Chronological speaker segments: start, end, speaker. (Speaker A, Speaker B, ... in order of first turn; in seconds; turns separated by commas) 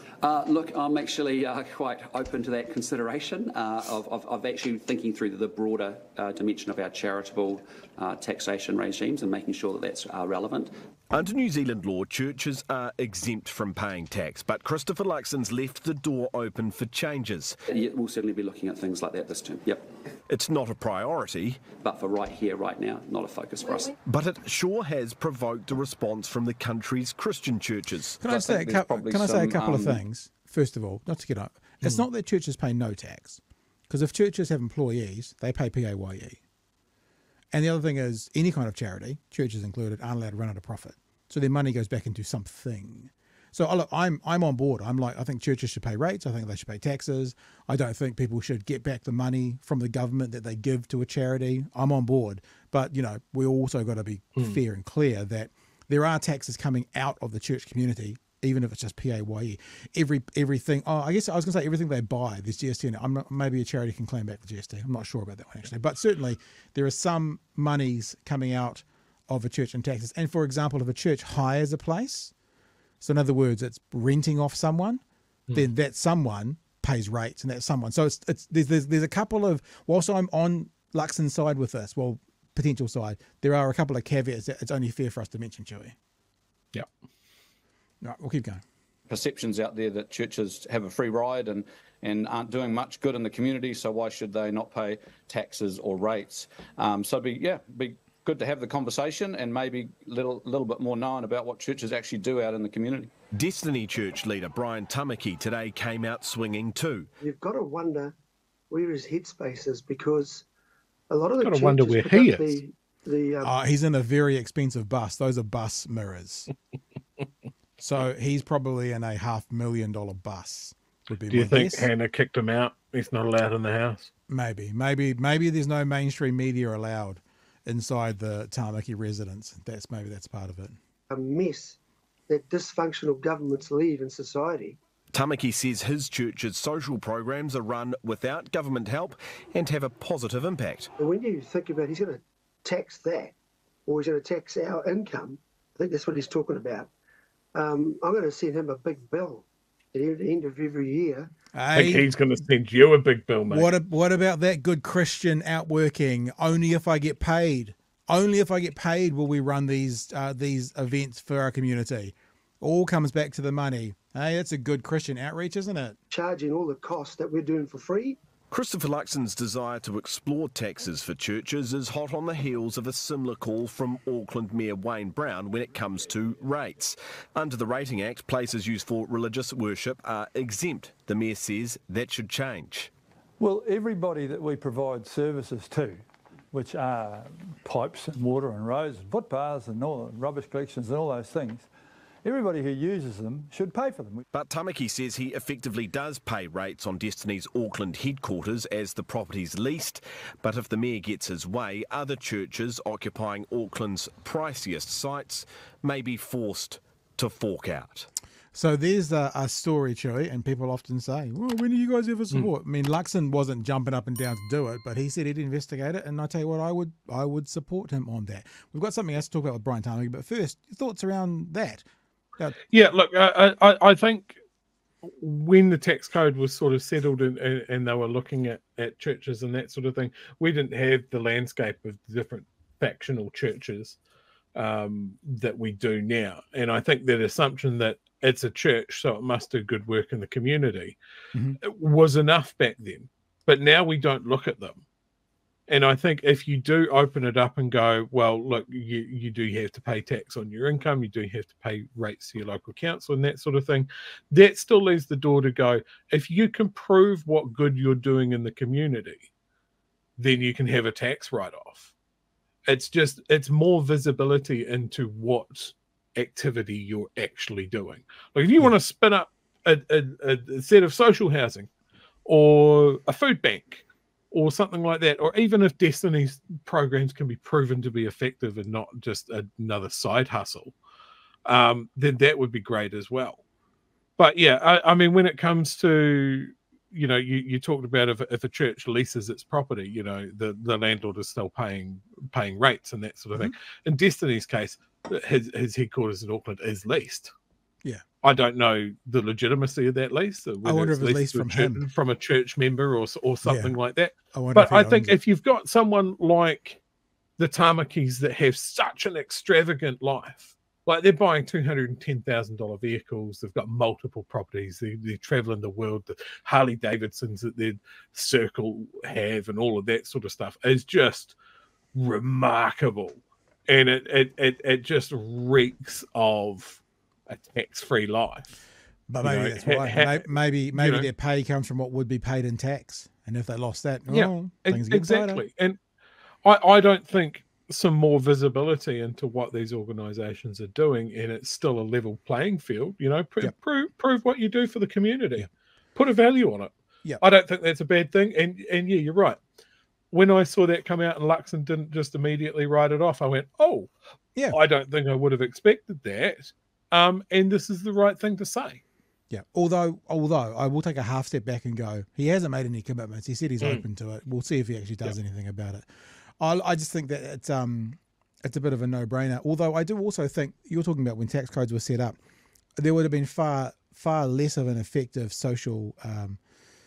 Speaker A: 0.2-10.7, Speaker B: 11.1-17.5, Speaker A: 17.8-19.8, Speaker B: 20.3-21.7, Speaker A: 21.9-23.9, Speaker B: 24.1-28.2, Speaker C: 28.2-36.4, Speaker D: 28.2-30.0, Speaker C: 37.5-72.3, Speaker C: 73.0-75.0, Speaker C: 75.5-85.9, Speaker C: 88.0-88.6, Speaker D: 89.1-103.1, Speaker B: 103.3-107.1, Speaker E: 107.2-108.1, Speaker E: 108.7-110.4, Speaker E: 111.1-113.5, Speaker F: 111.4-112.6, Speaker C: 113.4-116.5, Speaker C: 117.8-121.9, Speaker F: 121.3-124.1, Speaker C: 124.3-130.8, Speaker E: 131.1-134.8, Speaker B: 135.1-140.9, Speaker E: 141.0-143.3, Speaker E: 143.8-146.9, Speaker E: 147.5-151.3, Speaker C: 151.5-152.1, Speaker F: 151.7-153.7, Speaker C: 153.5-166.0, Speaker E: 166.1-168.2, Speaker B: 168.5-182.9, Speaker G: 183.4-191.7, Speaker G: 192.2-194.2, Speaker B: 194.3-208.1, Speaker C: 208.5-221.8, Speaker F: 222.7-224.4, Speaker F: 225.0-234.0, Speaker F: 234.5-241.0, Speaker F: 241.6-244.8, Speaker F: 245.7-259.3, Speaker F: 260.2-261.9, Speaker F: 262.7-271.7, Speaker F: 272.2-280.7, Speaker F: 281.4-283.4, Speaker F: 284.2-297.3, Speaker F: 298.2-306.8, Speaker C: 300.6-301.8, Speaker C: 303.4-303.7, Speaker C: 304.3-305.2, Speaker F: 307.4-321.3, Speaker F: 321.9-328.5, Speaker C: 329.1-335.4, Speaker F: 329.2-331.1, Speaker F: 334.1-335.8, Speaker F: 336.4-349.4, Speaker F: 350.1-353.9, Speaker F: 354.5-358.8, Speaker C: 359.3-365.8, Speaker C: 366.4-372.2, Speaker C: 372.8-376.4